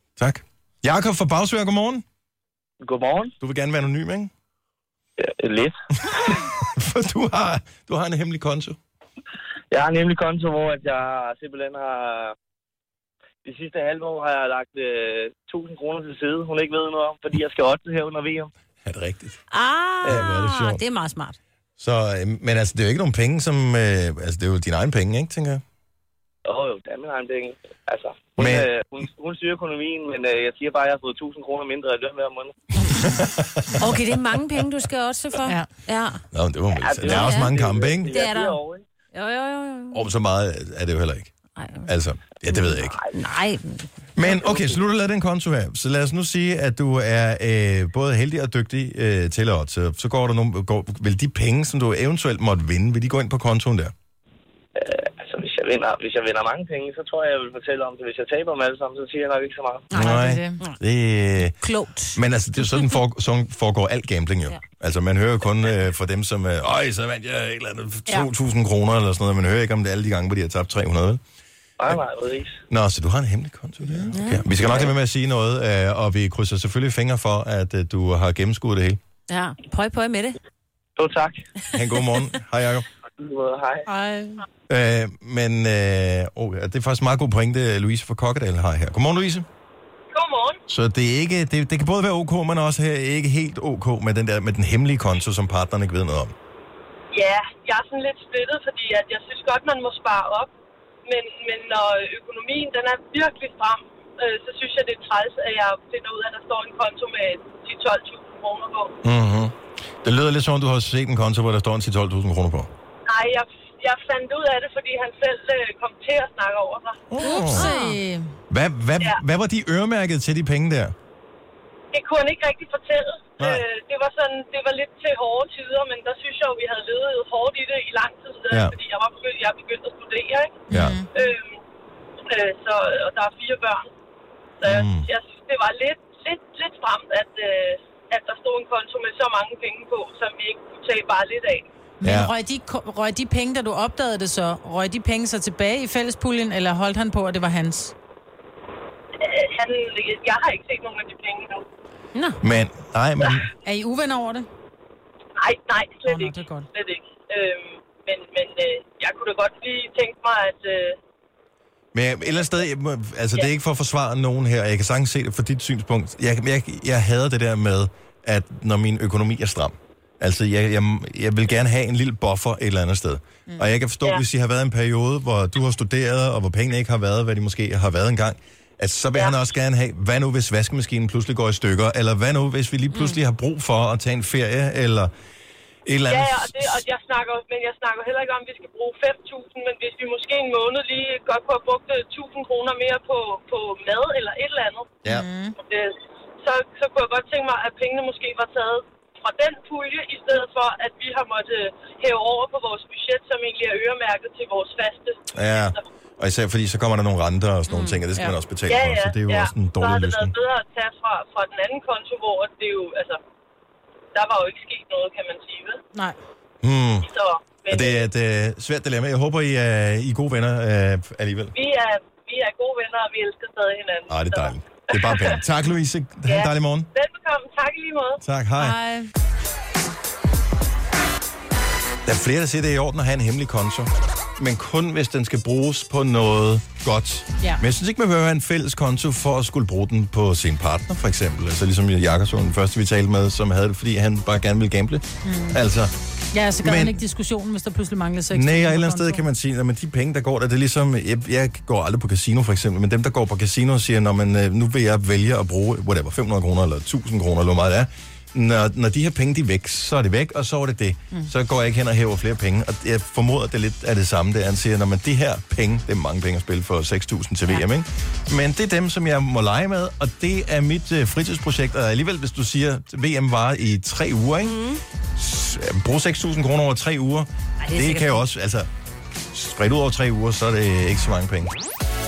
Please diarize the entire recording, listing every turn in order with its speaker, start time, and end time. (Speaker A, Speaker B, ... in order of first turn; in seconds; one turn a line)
Speaker A: 0.2-2.0
Speaker B: 2.8-3.3
Speaker A: 3.4-4.3
Speaker B: 5.2-5.8
Speaker A: 6.1-8.8
Speaker B: 9.7-12.4
Speaker B: 13.4-18.5
Speaker A: 18.9-19.4
Speaker C: 19.5-21.4
Speaker B: 20.0-20.3
Speaker A: 20.0-20.8
Speaker A: 21.8-25.6
Speaker B: 26.5-32.8
Speaker A: 28.4-28.7
Speaker A: 33.0-34.0
Speaker C: 33.8-36.2
Speaker A: 36.3-38.1
Speaker B: 36.8-38.8
Speaker C: 37.2-37.5
Speaker C: 38.1-38.6
Speaker C: 39.1-40.1
Speaker A: 39.9-41.3
Speaker C: 41.6-41.9
Speaker A: 41.9-43.0
Speaker C: 42.5-44.6
Speaker A: 44.2-53.9
Speaker B: 54.8-59.9
Speaker D: 59.9-60.6
Speaker A: 59.9-61.6
Speaker C: 61.4-62.2
Speaker A: 62.1-71.2
Speaker B: 71.8-72.6
Speaker A: 72.7-79.0
Speaker C: 74.1-74.5
Speaker C: 79.3-80.4
Speaker B: 81.0-81.4
Speaker A: 81.7-82.9
Speaker B: 83.2-83.9
Speaker D: 84.0-84.4
Speaker A: 84.7-89.5
Speaker E: 90.1-90.6
Speaker A: 90.7-96.3
Speaker E: 97.1-100.5
Speaker E: 101.1-109.0
Speaker A: 109.0-112.7
Speaker E: 113.1-117.5
Speaker A: 117.1-117.8
Speaker D: 117.2-118.3
Speaker A: 118.5-120.9
Speaker E: 121.9-131.6
Speaker A: 123.4-123.6
Speaker A: 128.5-128.8
Speaker D: 130.7-131.1
Speaker A: 130.7-131.0
Speaker E: 132.3-133.9
Speaker E: 134.6-141.7
Speaker A: 134.6-135.1
Speaker D: 142.0-147.9
Speaker A: 142.0-142.3
Speaker E: 149.2-151.7
Speaker C: 152.1-152.4
Speaker A: 152.4-153.5
Speaker D: 153.6-154.5
Speaker E: 155.4-161.0
Speaker D: 156.1-156.7
Speaker A: 161.9-185.1
Speaker A: 185.9-186.8
Speaker E: 186.1-194.9
Speaker D: 195.1-195.6
Speaker E: 195.6-205.8
Speaker A: 205.3-210.3
Speaker D: 207.7-208.3
Speaker E: 208.7-213.2
Speaker E: 214.1-215.8
Speaker A: 216.6-217.1
Speaker E: 217.1-218.1
Speaker A: 217.7-221.5
Speaker E: 221.6-225.4
Speaker A: 224.1-226.9
Speaker E: 226.3-228.2
Speaker A: 228.2-228.8
Speaker D: 228.6-229.1
Speaker A: 232.1-245.9
Speaker D: 245.2-245.7
Speaker D: 246.3-249.2
Speaker A: 246.6-247.0
Speaker A: 248.3-274.6
Speaker C: 274.4-274.8
Speaker A: 275.2-278.7
Speaker C: 277.6-278.2
Speaker A: 279.3-281.5